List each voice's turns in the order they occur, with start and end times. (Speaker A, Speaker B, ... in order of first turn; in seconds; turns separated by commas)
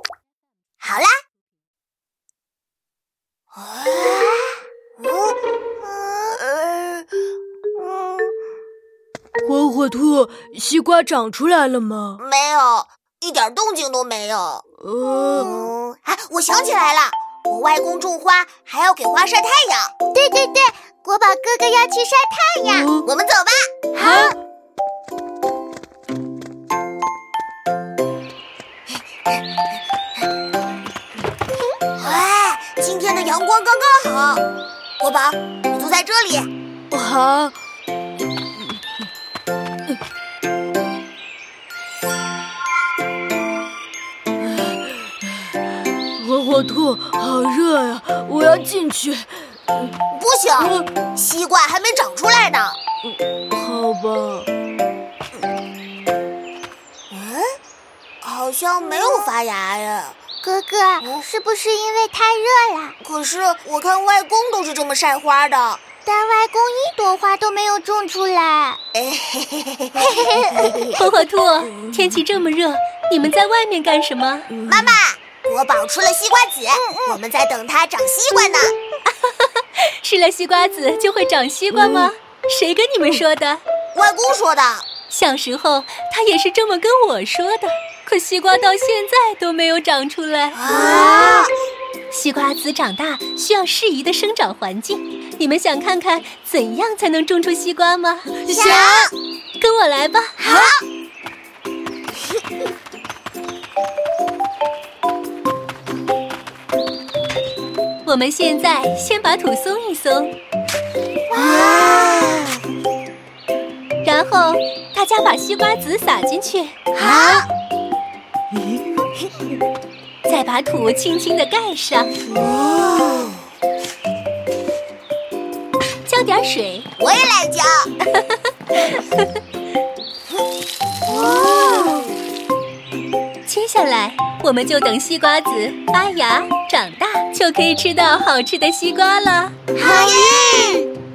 Speaker A: 0.8-1.1, Speaker A: 3.5-7.1, Speaker A: 7.8-8.3, Speaker B: 9.4-12.2, Speaker A: 12.2-14.7, Speaker B: 14.8-15.6, Speaker A: 15.3-19.9, Speaker C: 20.1-22.9, Speaker B: 22.7-23.1, Speaker A: 23.0-23.7, Speaker B: 23.9-24.4, Speaker C: 23.9-24.3, Speaker A: 32.0-34.5, Speaker A: 35.0-36.5, Speaker B: 36.9-37.6, Speaker B: 38.6-38.8, Speaker B: 44.4-45.1, Speaker B: 46.2-49.9, Speaker A: 50.1-52.8, Speaker B: 50.6-50.9, Speaker B: 53.4-54.5, Speaker A: 57.1-57.5, Speaker A: 58.2-60.2, Speaker C: 60.4-63.0, Speaker A: 63.0-65.8, Speaker C: 66.0-68.8, Speaker A: 68.9-70.2, Speaker C: 70.0-70.9, Speaker D: 70.9-74.5, Speaker B: 74.5-74.9, Speaker A: 74.7-78.7, Speaker D: 79.2-83.6, Speaker B: 81.7-82.1, Speaker A: 83.9-84.9, Speaker D: 85.1-91.2, Speaker A: 90.5-91.5, Speaker B: 90.9-91.4, Speaker D: 92.1-98.3, Speaker B: 98.3-99.1, Speaker A: 98.5-99.1, Speaker D: 99.6-100.4, Speaker A: 100.4-100.8, Speaker B: 100.4-100.7, Speaker D: 108.0-110.3, Speaker A: 111.3-112.5, Speaker B: 111.5-112.4, Speaker D: 114.0-117.4, Speaker A: 116.9-117.5, Speaker D: 120.3-122.2, Speaker A: 122.4-123.4, Speaker B: 122.4-123.3, Speaker D: 126.1-126.9, Speaker A: 127.0-127.9, Speaker D: 128.2-129.3, Speaker A: 131.1-132.1, Speaker D: 133.5-139.6, Speaker A: 139.8-140.8, Speaker B: 139.8-140.8